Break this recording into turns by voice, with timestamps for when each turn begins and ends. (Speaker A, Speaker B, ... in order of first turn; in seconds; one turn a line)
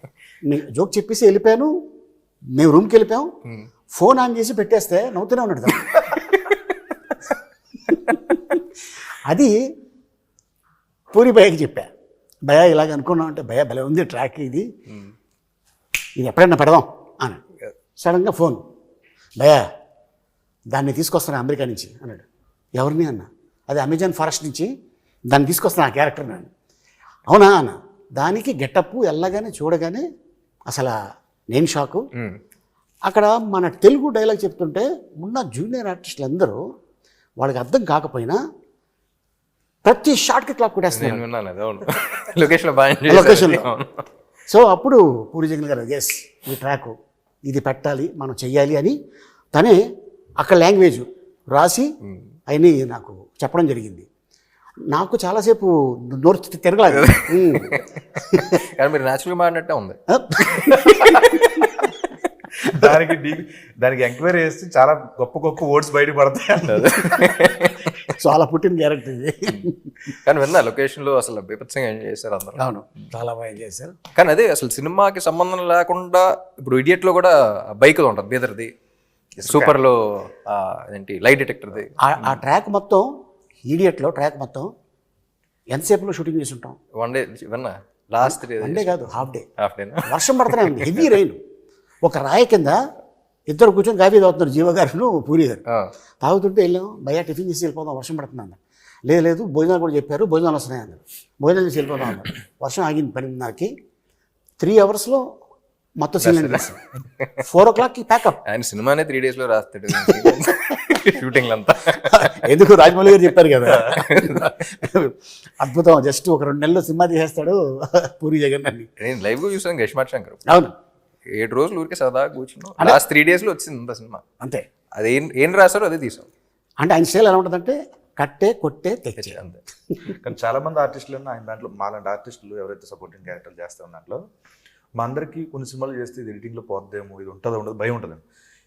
Speaker A: 0.5-1.7
Speaker A: 2.6-3.3
Speaker A: 3.9-6.1
Speaker B: 6.1-6.6
Speaker A: 9.3-9.6
Speaker A: 11.1-11.9
Speaker A: 12.5-14.7
Speaker A: 16.2-17.4
Speaker A: 18.0-18.6
Speaker A: 20.7-22.2
Speaker A: 22.8-24.7
Speaker A: 25.3-26.5
Speaker A: 27.3-30.1
Speaker A: 30.7-30.9
Speaker A: 31.5-32.0
Speaker A: 33.1-36.6
Speaker A: 37.4-38.4
Speaker A: 39.9-41.2
Speaker B: 40.9-44.0
Speaker A: 43.1-43.7
Speaker A: 44.5-46.9
Speaker A: 47.5-49.0
Speaker A: 50.4-51.9
Speaker A: 52.5-54.1
Speaker A: 54.9-57.8
Speaker B: 56.9-57.8
Speaker A: 58.3-58.6
Speaker B: 58.5-60.0
Speaker A: 60.1-61.3
Speaker B: 60.6-61.9
Speaker C: 62.7-67.2
Speaker B: 66.7-67.8
Speaker A: 68.2-69.9
Speaker B: 70.2-72.6
Speaker A: 72.6-73.9
Speaker B: 74.2-78.7
Speaker B: 79.4-82.4
Speaker A: 82.0-83.1
Speaker A: 83.7-84.7
Speaker A: 85.7-86.8
Speaker B: 87.0-91.1
Speaker A: 88.2-89.5
Speaker A: 90.1-91.4
Speaker A: 92.0-92.8
Speaker A: 93.5-95.6
Speaker A: 96.2-103.7
Speaker A: 104.6-105.2
Speaker A: 106.0-106.8
Speaker B: 106.2-106.7
Speaker A: 107.4-108.4
Speaker B: 108.5-112.5
Speaker A: 112.1-118.9
Speaker B: 113.2-114.5
Speaker B: 119.0-120.4
Speaker A: 120.5-120.7
Speaker B: 121.3-124.2
Speaker B: 125.0-126.3
Speaker A: 126.8-130.1
Speaker B: 129.2-129.6
Speaker C: 130.2-134.2
Speaker C: 135.0-138.2